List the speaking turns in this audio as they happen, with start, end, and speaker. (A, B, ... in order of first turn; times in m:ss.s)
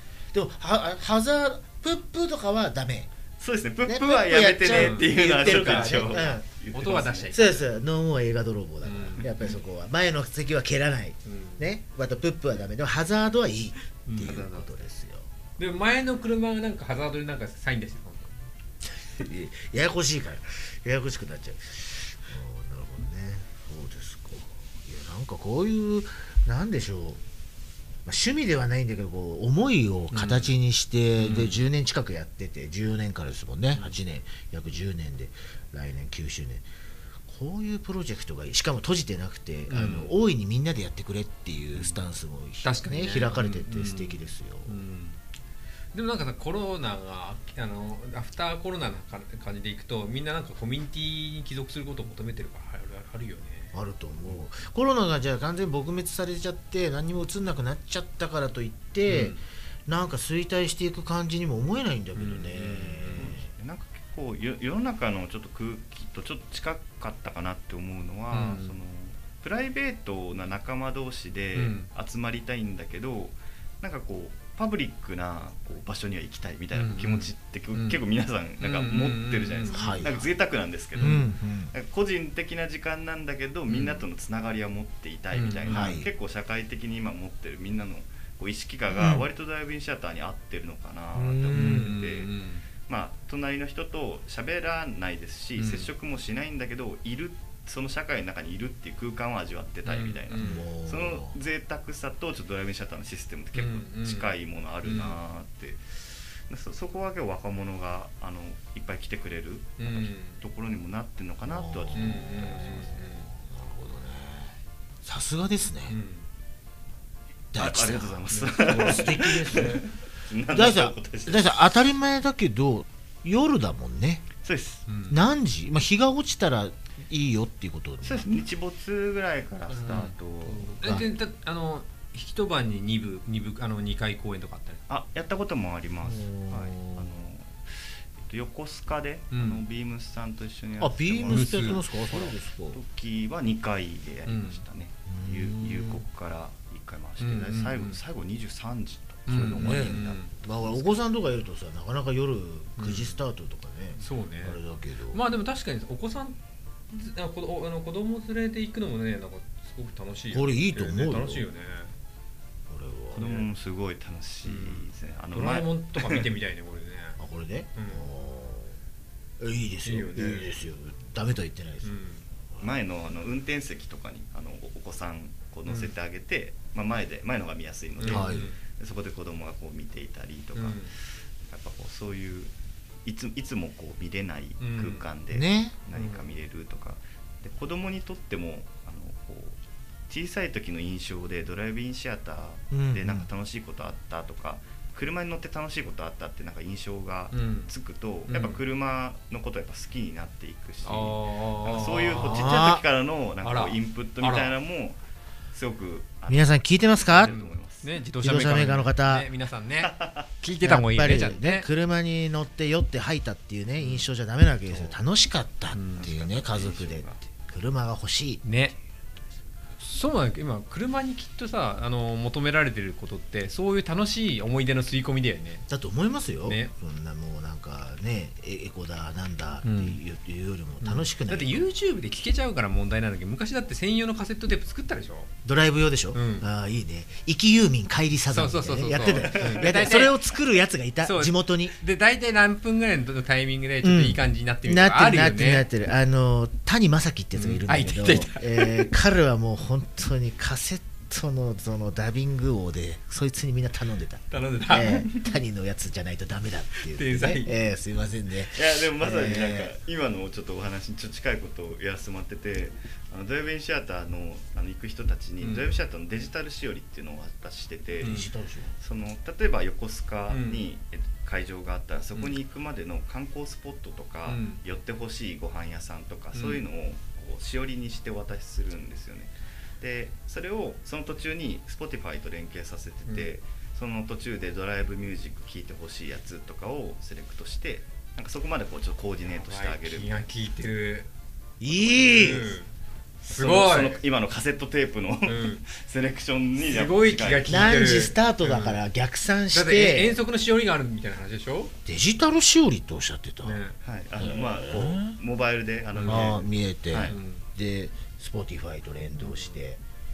0:00.3-0:03.1 A
0:03.4-0:07.4 B
0:03.9-0:06.4 A
0:04.7-0:07.7 C
0:07.3-0:15.3 A
0:08.8-0:09.6 C
0:11.2-0:11.7 C
0:14.1-0:14.7 C
0:15.6-0:18.4 C
0:19.1-0:27.2 A
0:28.0-0:36.7 A
0:30.1-0:30.6 C
0:31.2-0:31.6 C
0:37.2-0:44.8 A
0:39.7-0:40.2 C
0:42.6-0:45.2 C
0:45.9-0:53.7 C
0:53.7-1:03.5 A
0:59.1-0:59.4 C
1:02.2-1:03.4 C
1:03.2-1:32.3 B
1:08.3-1:08.7 C
1:11.6-1:11.9 C
1:16.7-1:18.0 C
1:18.6-1:20.2 C
1:19.7-1:20.3 A
1:21.0-1:21.2 C
1:21.0-1:21.7 A
1:23.7-1:24.0 C
1:25.3-1:26.0 C
1:25.7-1:26.1 A
1:28.9-1:29.3 A
1:31.1-1:32.0 A
1:31.5-1:32.6 C
1:32.8-1:52.9 B
1:35.6-1:35.9 C
1:39.9-1:40.7 C
1:40.4-1:41.4 A
1:43.6-1:45.2 C
1:49.8-1:50.4 C
1:51.4-1:56.0 A
1:51.9-1:53.3 C
1:55.9-1:56.3 C
1:57.5-1:59.9 A
1:57.6-2:01.8 B
1:58.3-1:59.8 C
2:00.5-2:04.3 A
2:04.4-2:04.8 B
2:04.9-2:05.2 C
2:05.1-2:08.3 A
2:08.0-2:11.1 B
2:09.8-2:14.8 C
2:10.8-2:11.1 A
2:14.9-2:30.8 B
2:16.0-2:17.1 A
2:19.3-2:19.6 C
2:20.8-2:22.8 A
2:21.3-2:21.8 C
2:24.3-2:24.6 C
2:25.1-2:26.0 A
2:27.2-2:28.0 C
2:29.3-2:30.3 C
2:29.3-2:35.2 A
2:32.8-2:33.2 C
2:34.0-2:34.6 C
2:35.1-2:36.4 C
2:36.9-2:41.9 C
2:40.3-2:41.5 A
2:42.7-2:43.5 A
2:43.1-2:46.3 B
2:44.4-2:47.2 C
2:47.2-2:48.8 A
2:47.8-2:48.1 C
2:49.4-2:52.0 A
2:49.8-2:50.6 C
2:51.8-2:52.2 C
2:52.6-3:02.5 B
2:55.7-2:55.9 C
2:58.0-2:58.6 C
2:58.1-2:58.5 A
3:00.6-3:00.9 C
3:03.0-3:09.6 B
3:04.6-3:05.1 C
3:05.3-3:05.8 A
3:05.9-3:06.3 C
3:10.1-3:25.0 B
3:12.7-3:13.3 A
3:17.3-3:17.7 C
3:18.3-3:18.6 C
3:20.8-3:22.6 C
3:22.2-3:22.8 A
3:23.4-3:24.6 C
3:25.5-3:27.9 B
3:26.3-3:27.4 A
3:27.1-3:31.7 C
3:28.2-3:29.3 A
3:29.8-3:30.3 B
3:30.6-3:38.4 A
3:33.8-3:34.1 C
3:34.7-3:35.0 C
3:35.7-3:36.1 C
3:36.0-3:37.2 B
3:38.4-3:38.8 C
3:39.8-3:45.7 C
3:45.7-3:51.7 A
3:46.4-3:46.7 C
3:49.6-3:50.0 C
3:50.8-3:55.3 C
3:55.4-4:01.8 A
3:56.1-3:56.5 C
3:58.3-4:00.2 C
3:59.2-3:59.8 B
4:01.0-4:05.7 C
4:03.8-4:19.7 A
4:07.4-4:08.9 C
4:14.3-4:15.1 C
4:16.8-4:17.5 C
4:18.5-4:28.3 B
4:25.4-4:25.8 C
4:28.0-4:28.3 C
4:28.0-4:28.8 A
4:28.8-4:50.2 B
4:30.3-4:30.7 C
4:34.3-4:34.6 C
4:36.3-4:36.6 C
4:49.2-4:51.1 C
4:51.6-4:52.6 A
4:51.7-4:52.7 C
4:53.3-4:54.0 C
4:53.3-4:57.8 B
4:55.3-4:55.6 C
4:56.6-4:58.8 C
4:57.5-5:00.2 A
4:59.5-5:01.7 C
5:01.8-5:03.6 A
5:03.4-5:03.8 C
5:03.8-5:07.2 B
5:04.2-5:05.2 A
5:05.9-5:06.4 C
5:06.1-5:09.8 A
5:07.1-5:07.4 C
5:09.2-5:09.6 C